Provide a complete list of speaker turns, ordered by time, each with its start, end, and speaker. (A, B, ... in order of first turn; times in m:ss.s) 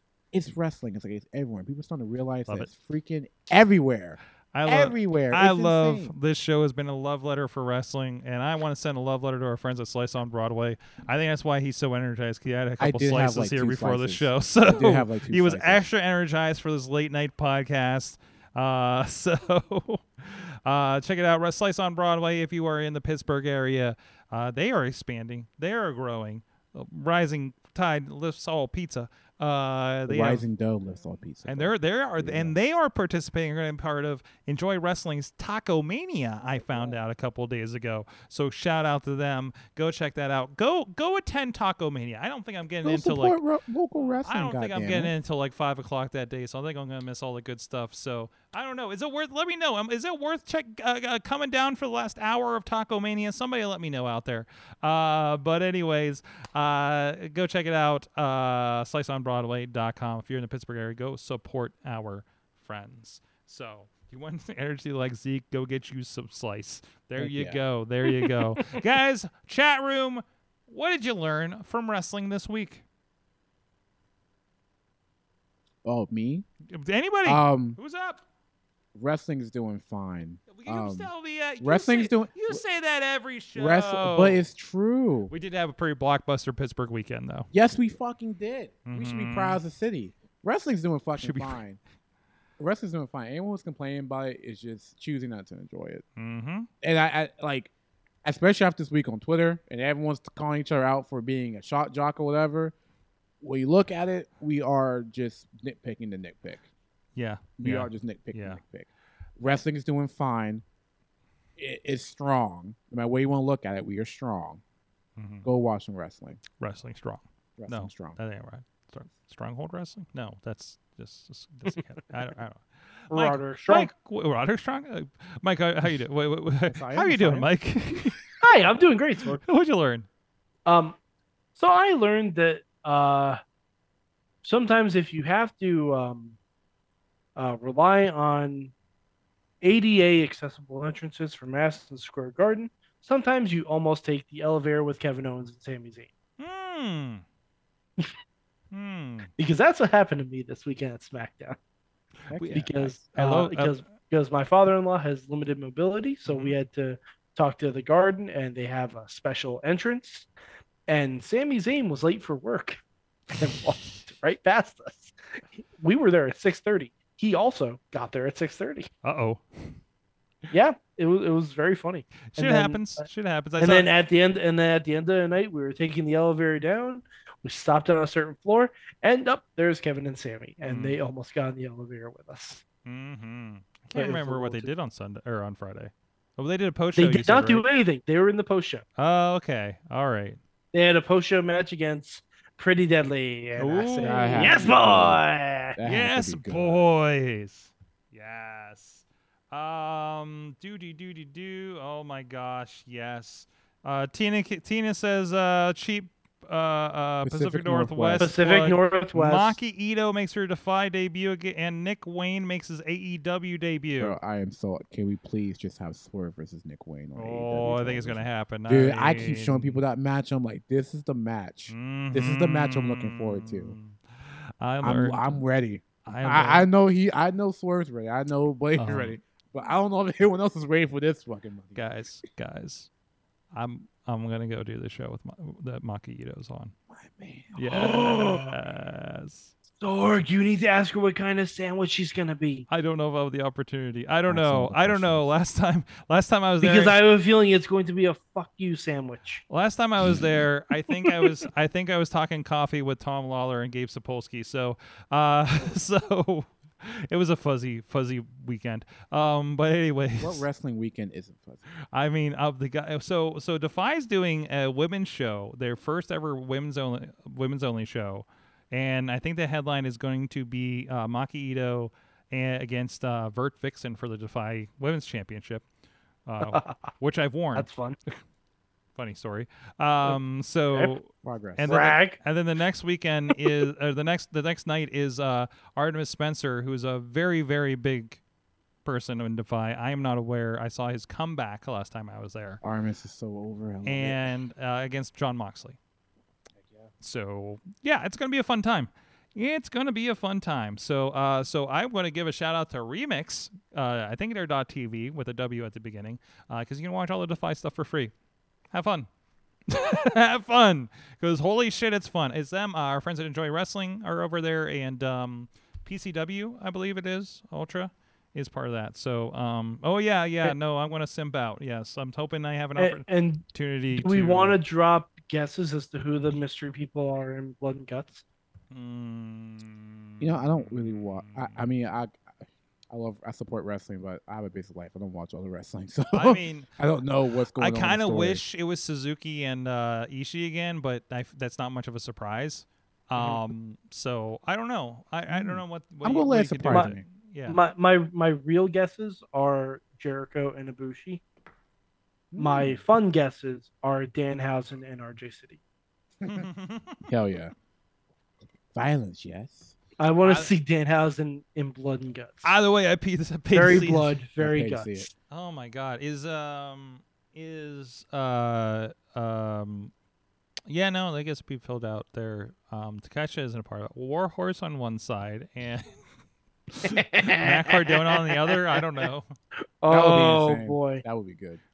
0:00.3-0:06.1 A
0:04.5-0:30.4 B
0:12.8-0:15.9 A
0:30.1-0:32.6 A
0:31.4-0:43.4 B
0:42.8-0:45.1 A
0:44.0-1:12.8 B
1:07.2-1:07.6 A
1:08.2-1:08.8 C
1:15.8-1:16.5 A
1:16.7-1:18.2 B
1:17.2-1:17.8 A
1:19.0-1:22.6 A
1:20.5-1:24.4 B
1:23.6-1:25.3 A
1:25.3-1:27.5 B
1:27.5-1:31.8 A
1:28.9-1:29.6 B
1:31.2-1:31.6 B
1:32.6-1:36.0 A
1:36.2-1:36.7 B
1:36.8-1:37.7 A
1:38.2-1:42.7 A
1:43.4-1:46.6 A
1:47.2-1:48.6 B
1:47.6-1:48.9 A
1:49.4-1:50.6 A
1:51.6-1:54.6 A
1:55.2-1:55.5 B
1:55.4-1:56.4 A
1:56.6-2:08.2 B
1:57.6-1:58.2 A
2:03.1-2:03.9 C
2:06.7-2:07.5 A
2:08.4-2:09.4 C
2:09.4-2:10.1 B
2:10.7-2:11.0 C
2:11.6-2:13.4 C
2:14.4-2:16.4 C
2:17.4-2:18.7 C
2:19.6-2:26.1 C
2:26.4-2:27.2 B
2:28.7-2:29.3 B
2:29.4-2:31.6 C
2:32.3-2:33.8 B
2:32.3-2:32.6 A
2:32.5-2:40.3 C
2:36.3-2:36.6 B
2:40.9-2:42.8 C
2:43.3-2:48.9 C
2:49.0-2:49.8 B
2:50.5-2:53.0 C
2:52.3-2:53.9 B
2:53.6-3:02.6 C
3:00.7-3:01.0 B
3:02.9-3:07.6 B
3:04.0-3:04.7 C
3:07.0-3:08.8 C
3:09.0-3:10.4 B
3:10.7-3:15.8 C
3:13.6-3:14.7 B
3:14.0-3:15.2 A
3:15.8-3:16.9 A
3:15.8-3:34.2 B
3:27.2-3:28.3 A
3:28.2-3:29.6 C
3:34.0-3:43.8 A
3:37.2-3:39.8 B
3:41.7-3:45.4 B
3:44.8-3:51.8 A
3:46.0-3:46.7 B
3:48.8-3:49.2 B
3:51.8-3:52.9 B
3:53.5-3:56.7 B
3:56.9-3:57.6 A
3:57.6-3:59.5 B
3:57.6-3:58.6 C
3:59.8-4:02.7 C
4:02.7-4:07.0 B
4:04.3-4:05.3 A
4:06.6-4:09.4 C
4:09.5-4:20.5 B
4:20.2-4:21.7 A
4:21.9-4:35.6 B
4:36.3-4:38.2 B
4:36.4-4:36.9 C
4:37.6-4:38.0 C
4:39.0-4:48.2 B
4:41.2-4:41.8 A
4:41.6-4:42.2 C
4:48.8-4:52.6 B
4:52.6-4:54.3 A
4:53.8-4:55.8 B
4:57.0-5:08.1 B
5:08.7-5:09.1 B
5:09.7-5:24.6 B
5:22.8-5:28.2 C
5:28.7-5:31.5 B
5:30.2-5:32.2 A
5:32.9-5:38.4 A
5:36.1-5:36.7 B
5:37.6-5:47.6 B
5:43.2-5:43.4 C
5:45.3-5:47.0 A
5:47.5-5:51.2 C
5:52.3-5:52.8 A
5:52.4-5:55.6 C
5:56.2-5:56.5 A
5:56.2-5:57.1 B
5:57.1-5:57.5 A
5:58.7-5:59.8 A
6:00.0-6:02.6 C
6:02.4-6:04.2 B
6:03.5-6:05.1 C
6:03.6-6:05.1 A
6:05.3-6:09.9 B
6:10.7-6:16.0 B
6:16.7-6:19.3 B
6:16.9-6:18.8 C
6:19.8-6:21.0 C
6:19.9-6:21.6 A